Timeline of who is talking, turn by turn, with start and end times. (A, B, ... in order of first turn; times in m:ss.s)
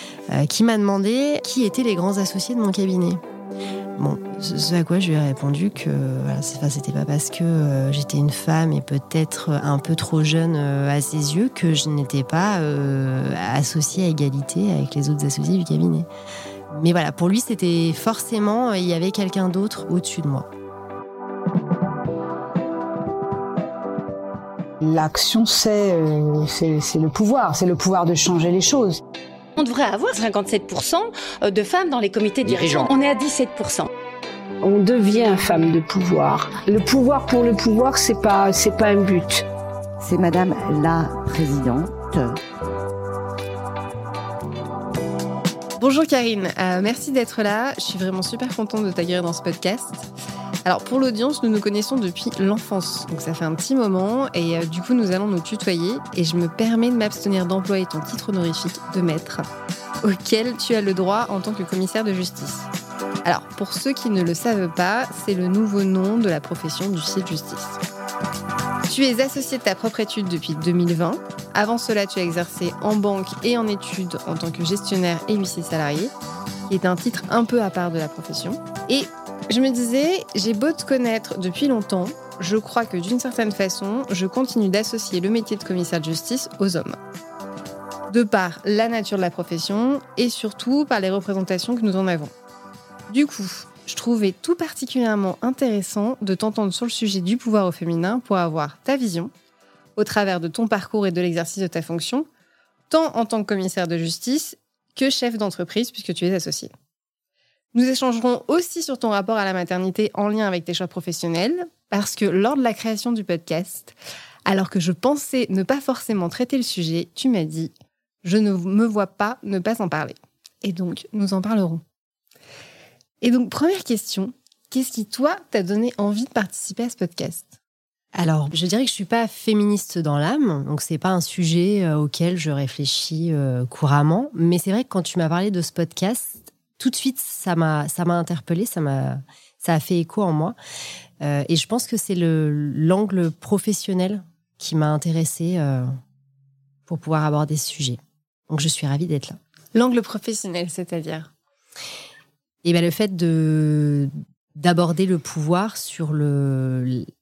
0:00.3-0:03.2 A
0:04.0-0:16.1 A
0:16.7-0:20.5 A
0:24.8-0:29.0 B
0:29.6-0:33.9 C
0:32.4-0:32.9 D
0:34.6-0:39.4 B
0:40.0-0:42.4 D
0:45.8-0:50.1 E
0:50.6-0:59.5 E
1:00.0-1:02.7 E
1:03.2-1:07.8 E
1:08.8-1:16.1 E
1:16.7-1:27.0 E
1:28.1-1:32.3 E
1:33.1-1:39.3 E
1:40.0-1:42.3 E
1:42.9-1:46.7 E
1:47.7-1:57.7 E
1:58.2-2:01.8 E
2:03.2-2:07.5 E
2:08.2-2:20.6 A
2:21.2-2:25.9 A
2:26.9-2:29.4 A
2:29.7-2:31.3 E
2:32.6-2:37.1 A